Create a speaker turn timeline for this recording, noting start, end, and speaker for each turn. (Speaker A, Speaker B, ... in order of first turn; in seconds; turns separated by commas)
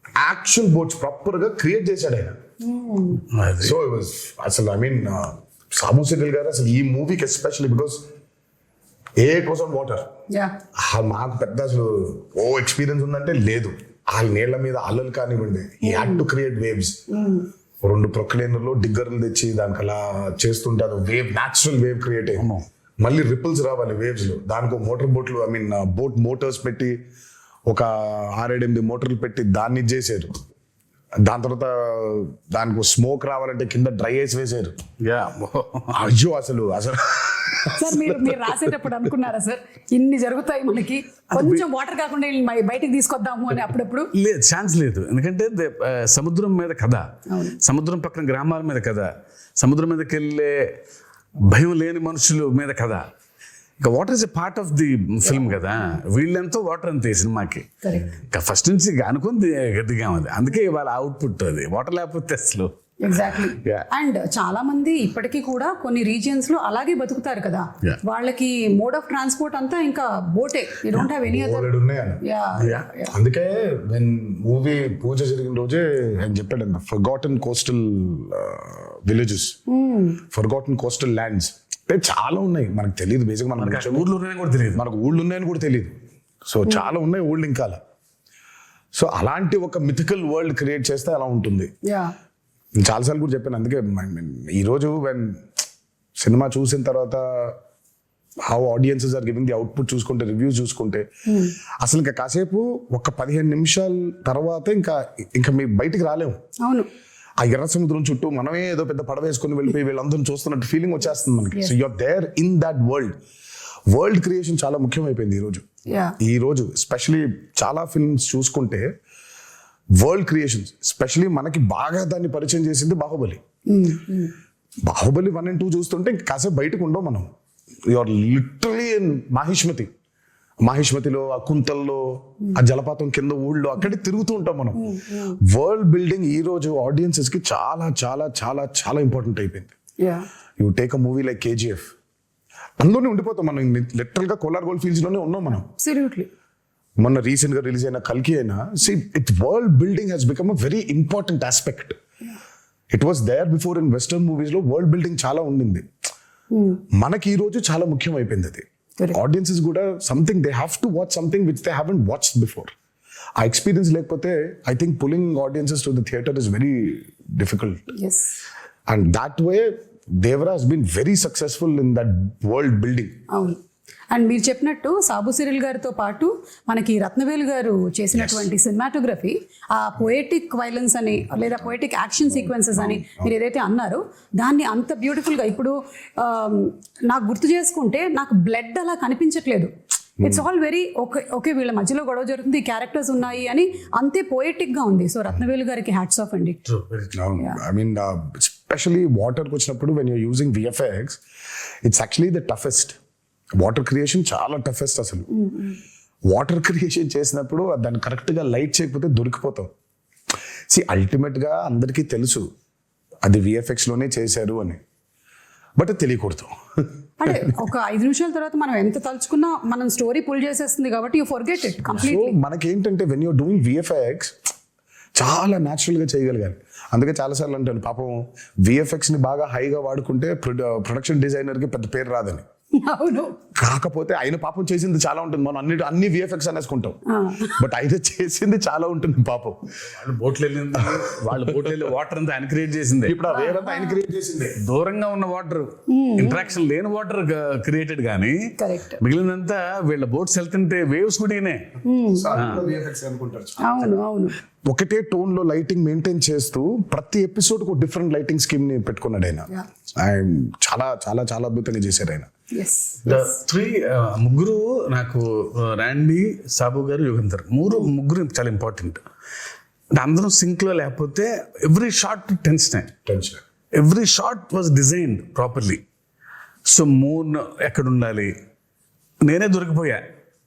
Speaker A: 0.2-2.4, Speaker B: 2.6-3.2, Speaker C: 3.3-3.8, Speaker A: 3.6-8.0, Speaker A: 9.2-10.1, Speaker A: 10.8-17.0, Speaker B: 15.8-16.2, Speaker B: 17.1-17.5, Speaker A: 17.8-27.0, Speaker C: 22.4-22.6, Speaker A: 27.7-30.4, Speaker A: 31.2-34.8, Speaker C: 35.0-36.1, Speaker A: 35.9-38.5, Speaker B: 37.8-44.1, Speaker C: 41.3-41.6, Speaker C: 44.1-47.0, Speaker B: 47.3-47.6, Speaker C: 47.6-50.8, Speaker C: 51.5-53.0, Speaker C: 53.8-62.7, Speaker B: 55.2-55.8, Speaker B: 57.8-58.1, Speaker B: 63.0-71.7, Speaker C: 63.4-63.9, Speaker A: 71.3-72.2, Speaker B: 72.2-73.1, Speaker C: 72.6-72.9, Speaker A: 73.1-79.6, Speaker B: 79.7-80.2, Speaker A: 80.3-84.1, Speaker C: 83.6-84.8, Speaker A: 84.8-85.9, Speaker A: 86.5-87.8, Speaker A: 88.9-91.7, Speaker B: 91.9-92.1, Speaker A: 92.8-95.5, Speaker A: 96.2-97.6, Speaker A: 98.5-101.0, Speaker B: 101.3-101.5, Speaker A: 101.8-106.4, Speaker B: 106.6-106.9, Speaker A: 107.4-113.2, Speaker A: 113.9-115.7, Speaker B: 115.9-116.2, Speaker A: 116.2-118.9, Speaker A: 120.0-123.4, Speaker B: 123.7-124.3, Speaker A: 124.9-127.3, Speaker A: 127.9-129.9, Speaker A: 130.7-134.9, Speaker B: 134.8-135.4, Speaker A: 135.4-139.8, Speaker B: 140.0-140.3, Speaker A: 140.6-141.9, Speaker A: 142.8-145.7, Speaker B: 145.8-146.3, Speaker A: 147.0-152.0, Speaker A: 152.9-155.9, Speaker B: 156.5-156.8, Speaker A: 156.9-162.7, Speaker A: 163.4-167.8, Speaker B: 167.9-168.4, Speaker A: 168.9-173.2, Speaker B: 173.3-173.6, Speaker B: 174.1-189.7, Speaker A: 182.4-183.3, Speaker B: 190.2-196.6, Speaker C: 196.7-197.2, Speaker A: 197.1-201.2, Speaker A: 201.8-203.0, Speaker A: 203.6-205.3, Speaker B: 205.3-205.8, Speaker A: 206.3-209.7, Speaker A: 210.7-212.5, Speaker A: 213.2-214.8, Speaker A: 215.8-216.6, Speaker B: 217.2-222.4, Speaker A: 221.9-224.4, Speaker A: 225.2-232.4, Speaker B: 232.8-233.4, Speaker A: 233.6-237.0, Speaker B: 237.1-237.6, Speaker A: 237.5-239.6, Speaker C: 239.9-243.2, Speaker A: 240.8-241.6, Speaker A: 243.1-244.6, Speaker B: 243.3-244.0, Speaker C: 244.6-248.4, Speaker B: 245.9-246.5, Speaker B: 248.6-249.0, Speaker C: 249.0-251.6, Speaker B: 251.8-252.4, Speaker A: 252.1-253.7, Speaker C: 252.3-252.6, Speaker B: 253.6-254.3, Speaker A: 254.7-259.5, Speaker A: 260.0-262.3, Speaker B: 262.5-263.4, Speaker C: 263.1-269.0, Speaker C: 270.0-272.9, Speaker A: 273.1-273.4, Speaker C: 273.8-275.8, Speaker C: 276.7-278.3, Speaker C: 279.2-280.0